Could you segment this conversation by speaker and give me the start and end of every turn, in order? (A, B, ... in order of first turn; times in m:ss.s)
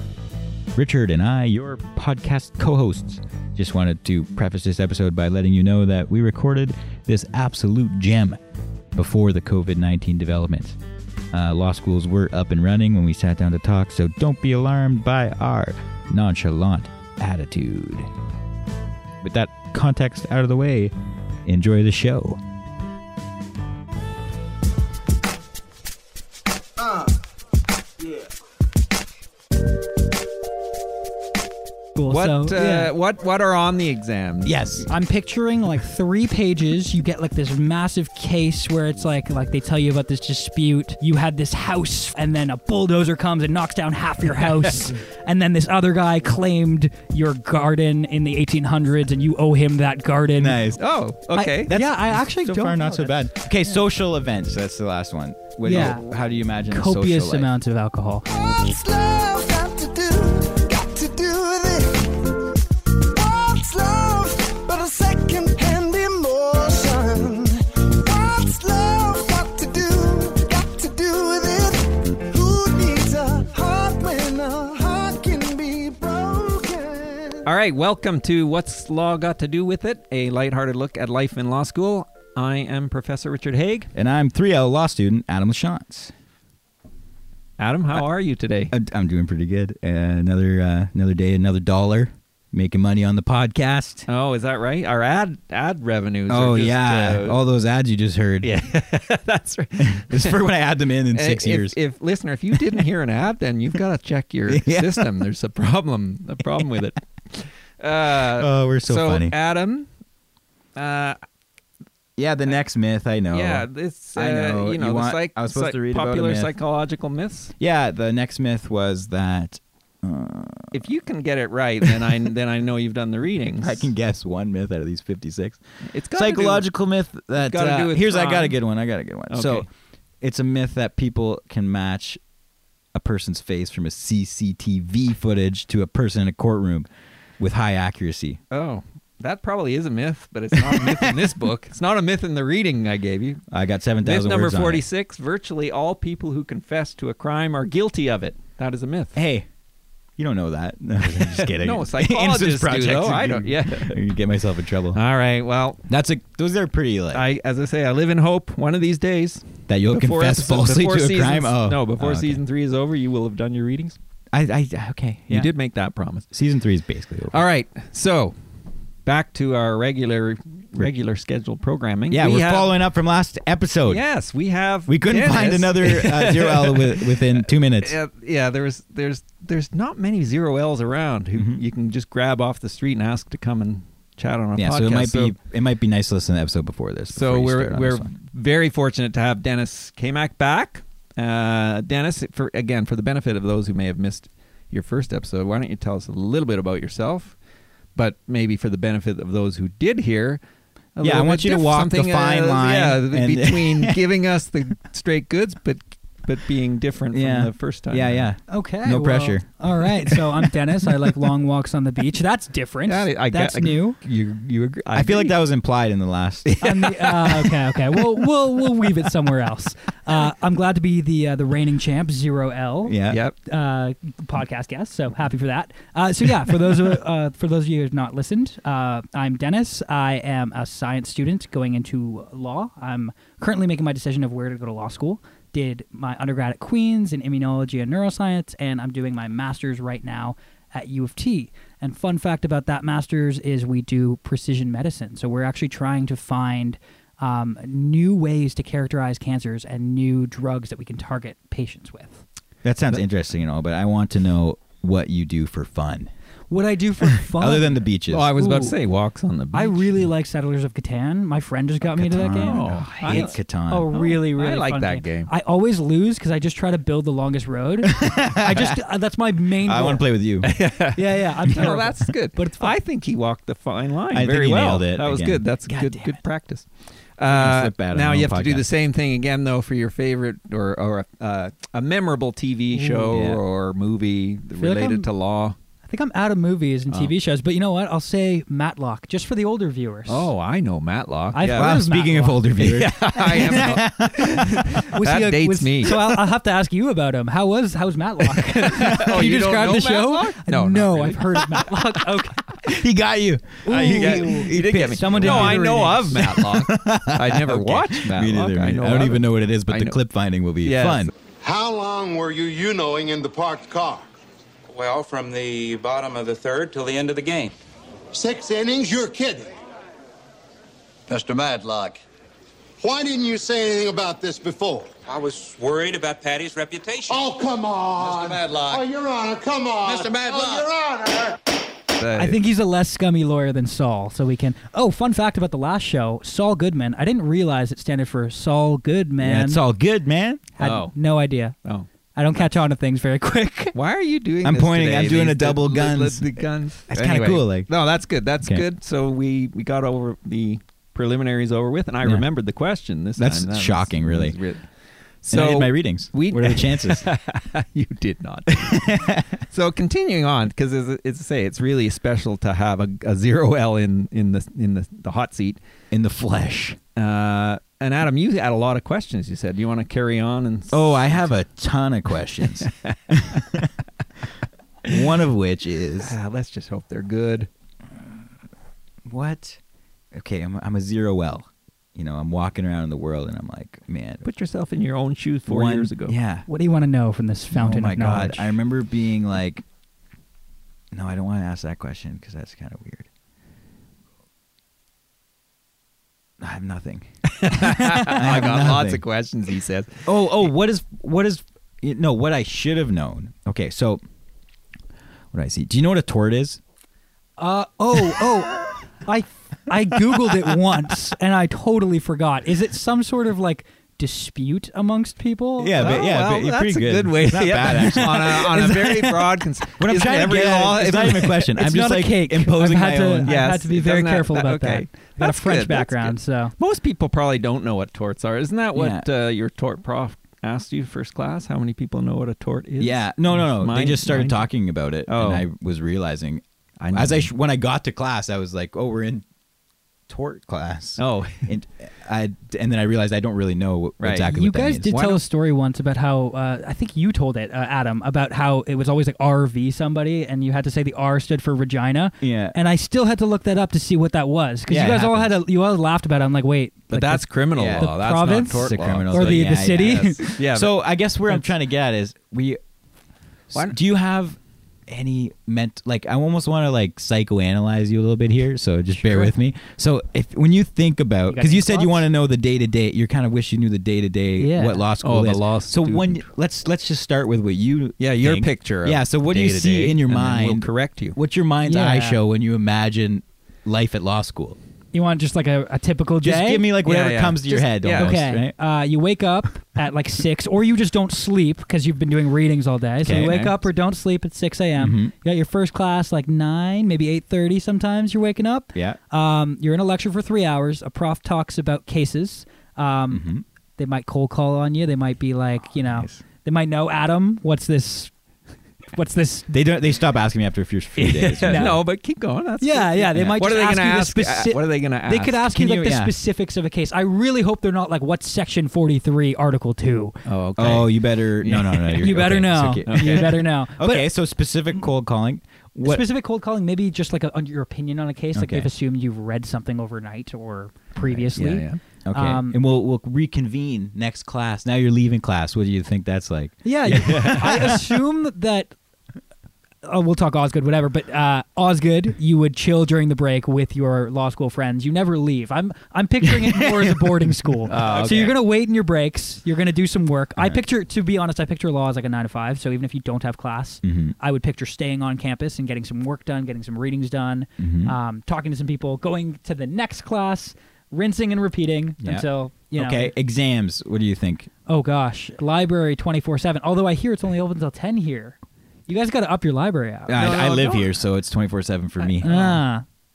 0:00.7-0:08.4 A
0:08.9-0:10.8 A
0:11.3-0:18.1 A
0:19.2-0:20.9 A
0:21.4-0:22.4 A
0:31.9-0:32.9 B
0:32.1-0:34.9 C
0:34.4-0:34.9 A
0:34.9-0:50.6 B
0:50.4-0:57.5 A
0:50.8-0:51.7 C
0:51.3-0:53.8 B
0:55.6-0:56.0 B
0:56.7-0:58.3 B
0:58.2-1:02.5 D
1:03.1-1:17.5 D
1:17.4-1:23.9 C
1:23.9-1:26.1 A
1:27.6-1:28.7 C
1:28.7-1:34.0 A
1:34.1-1:37.4 C
1:36.3-1:38.5 A
1:38.4-1:40.4 C
1:39.8-1:41.8 A
1:41.1-1:49.9 C
1:44.5-1:45.3 A
1:48.2-1:49.3 A
1:50.8-1:51.2 C
1:52.2-1:56.5 A
1:53.3-1:57.5 C
1:57.6-2:00.9 A
2:00.7-2:03.9 C
2:01.8-2:02.1 A
2:03.6-2:05.6 A
2:05.9-2:06.7 C
2:06.1-2:09.7 A
2:07.4-2:08.6 C
2:09.3-2:09.7 C
2:10.2-2:12.2 A
2:12.9-2:18.4 A
2:18.5-2:23.4 C
2:20.5-2:21.3 A
2:23.5-2:24.8 A
2:24.0-2:29.2 C
2:29.1-2:29.5 A
2:30.2-2:35.0 A
2:31.0-2:34.0 C
2:34.9-2:35.8 C
2:35.9-2:37.3 A
2:37.1-2:44.0 C
2:39.7-2:42.4 A
2:44.3-2:45.5 A
2:45.3-2:46.2 C
2:46.3-2:47.4 A
2:47.3-2:48.3 C
2:49.0-2:52.7 C
2:52.1-2:54.0 A
2:53.9-3:05.3 C
2:54.9-2:58.0 A
3:01.3-3:01.6 A
3:04.6-3:08.1 A
3:07.1-3:17.4 C
3:18.0-3:20.4 C
3:21.0-3:28.3 C
3:21.0-3:24.0 A
3:27.1-3:30.3 A
3:28.5-3:34.0 B
3:32.8-3:35.4 C
3:34.9-3:36.6 A
3:36.4-3:38.2 C
3:36.6-4:12.2 B
3:42.8-3:43.2 A
3:43.1-3:43.4 C
4:12.6-4:16.1 A
4:16.5-4:17.8 B
4:17.3-4:18.3 A
4:18.1-4:20.0 C
4:18.4-4:18.8 B
4:19.5-4:30.1 B
4:22.0-4:23.9 A
4:22.4-4:23.3 C
4:23.9-4:25.3 C
4:27.8-4:28.8 A
4:29.6-4:30.5 A
4:30.4-4:45.6 C
4:30.9-4:32.7 B
4:31.5-4:31.8 A
4:34.1-4:36.2 A
4:37.2-4:38.6 A
4:42.7-4:43.2 B
4:43.1-4:43.4 A
4:44.6-4:45.1 B
4:45.8-4:50.3 B
4:50.1-4:51.8 C
4:51.3-4:52.4 B
4:51.4-4:54.7 A
4:52.6-4:56.0 C
4:54.8-5:02.6 B
4:58.4-5:01.7 C
5:02.6-5:11.1 A
5:03.6-5:06.3 B
5:03.7-5:10.0 C
5:10.6-5:11.1 C
5:11.4-5:14.1 E
5:14.7-5:17.5 F
5:18.1-5:19.5 E
5:21.1-5:22.0 F
5:22.8-5:25.0 E
5:25.1-5:27.3 F
5:27.1-5:31.4 E
5:28.0-5:28.8 F
5:29.8-5:30.7 F
5:32.0-5:32.4 C
5:32.1-5:39.6 B
5:39.2-5:40.5 A
5:40.6-5:41.5 B
5:40.6-5:40.9 C
5:42.1-5:43.7 B
5:43.7-5:54.6 C
5:44.4-5:46.3 A
5:46.9-5:47.7 A
5:53.2-5:54.4 A
5:55.2-6:05.6 C
5:55.3-5:57.1 A
5:58.5-5:59.2 A
6:05.9-6:06.8 A
6:07.0-6:11.3 C
6:10.7-6:13.7 A
6:12.4-6:12.9 C
6:14.9-6:16.1 A
6:16.0-6:17.5 C
6:19.1-6:19.6 A
6:20.1-6:24.2 A
6:24.2-6:26.1 C
6:25.5-6:26.4 A
6:26.5-6:28.6 B
6:27.5-6:29.6 A
6:30.9-6:33.1 A
6:36.4-6:39.0 A
6:37.3-6:40.1 C
6:40.0-6:44.0 A
6:45.3-6:46.6 A
6:47.4-6:56.0 B
6:55.6-7:03.3 A
6:55.8-7:01.5 C
7:01.5-7:06.5 B
7:03.2-7:14.5 C
7:08.7-7:09.0 A
7:12.8-7:19.2 A
7:15.1-7:15.4 C
7:16.8-7:17.3 C
7:20.1-7:24.9 A
7:21.0-7:21.5 C
7:24.0-7:24.3 C
7:24.3-7:40.4 B
7:24.9-7:25.2 C
7:32.2-7:32.6 A
7:34.7-7:35.4 A
7:36.9-7:40.7 C
7:37.5-7:42.6 A
7:43.5-8:04.6 A
7:49.0-7:49.3 B
7:51.3-7:52.0 B
7:54.4-7:54.8 B
7:55.0-7:56.2 C
7:58.0-8:01.2 C
8:01.6-8:02.2 B
8:04.9-8:06.7 B
8:06.2-8:08.5 A
8:06.8-8:08.2 C
8:07.9-8:28.1 B
8:13.0-8:13.5 A
8:13.1-8:13.5 C
8:14.8-8:15.1 A
8:23.1-8:23.4 A
8:25.7-8:26.2 A
8:28.9-8:29.5 B
8:29.5-8:31.8 A
8:31.0-8:35.5 C
8:31.5-8:31.8 B
8:32.6-8:40.2 B
8:35.5-8:36.1 A
8:40.2-8:42.2 C
8:40.6-8:46.0 A
8:42.0-8:44.1 B
8:42.9-8:43.4 C
8:45.8-8:52.6 B
8:48.3-8:48.7 A
8:51.2-8:51.8 C
8:52.0-8:57.9 A
8:56.6-8:58.7 B
8:57.0-8:57.7 C
8:59.8-9:23.1 B
9:06.2-9:07.1 A
9:07.7-9:08.3 C
9:07.8-9:08.2 A
9:13.8-9:14.1 A
9:17.6-9:18.0 A
9:22.0-9:24.5 A
9:24.7-9:30.3 B
9:30.1-9:32.6 A
9:30.1-9:30.9 C
9:32.2-9:32.5 C
9:32.2-9:32.8 B